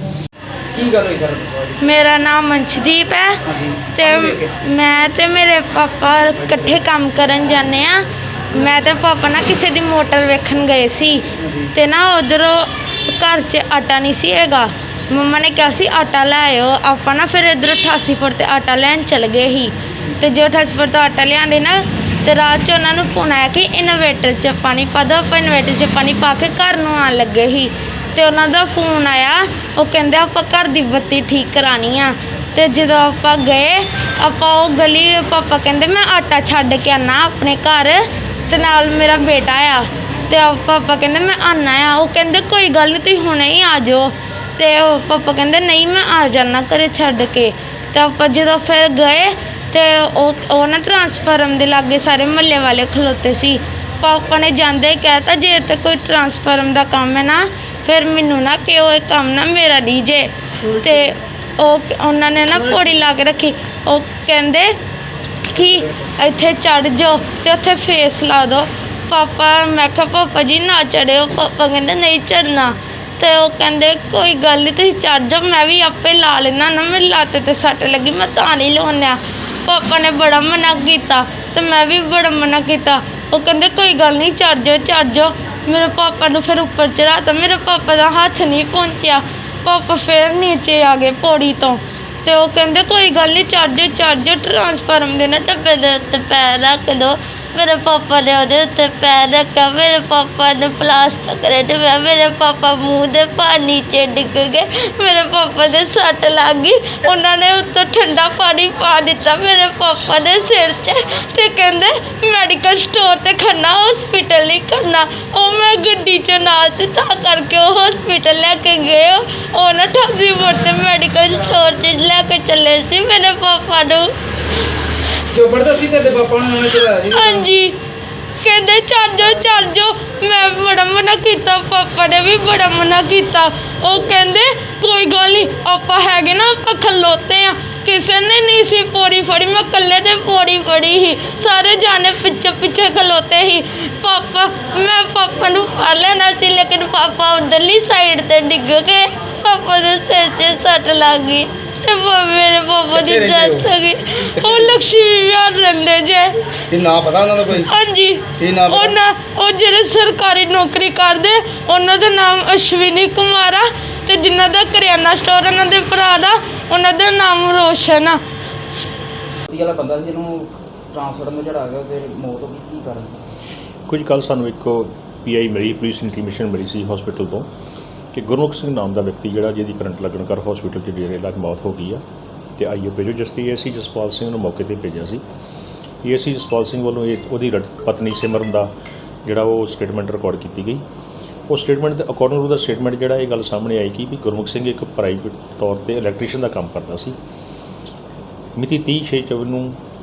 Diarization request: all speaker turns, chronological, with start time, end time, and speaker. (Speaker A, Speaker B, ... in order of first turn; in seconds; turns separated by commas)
Speaker A: 0.7-1.8, Speaker B: 1.8-3.4, Speaker A: 3.5-4.5, Speaker B: 3.9-11.2, Speaker A: 11.4-11.7, Speaker B: 11.7-64.8, Speaker B: 65.4-124.1, Speaker A: 125.3-127.5, Speaker B: 127.1-127.7, Speaker B: 128.4-156.3, Speaker C: 152.9-153.7, Speaker C: 154.4-154.8, Speaker C: 156.7-157.7, Speaker B: 157.6-168.2, Speaker C: 158.4-159.0, Speaker A: 169.5-173.2, Speaker D: 173.9-177.5, Speaker D: 178.1-182.0, Speaker D: 182.6-185.2, Speaker D: 186.0-188.7, Speaker D: 189.2-190.8, Speaker D: 191.5-197.2, Speaker D: 198.6-199.8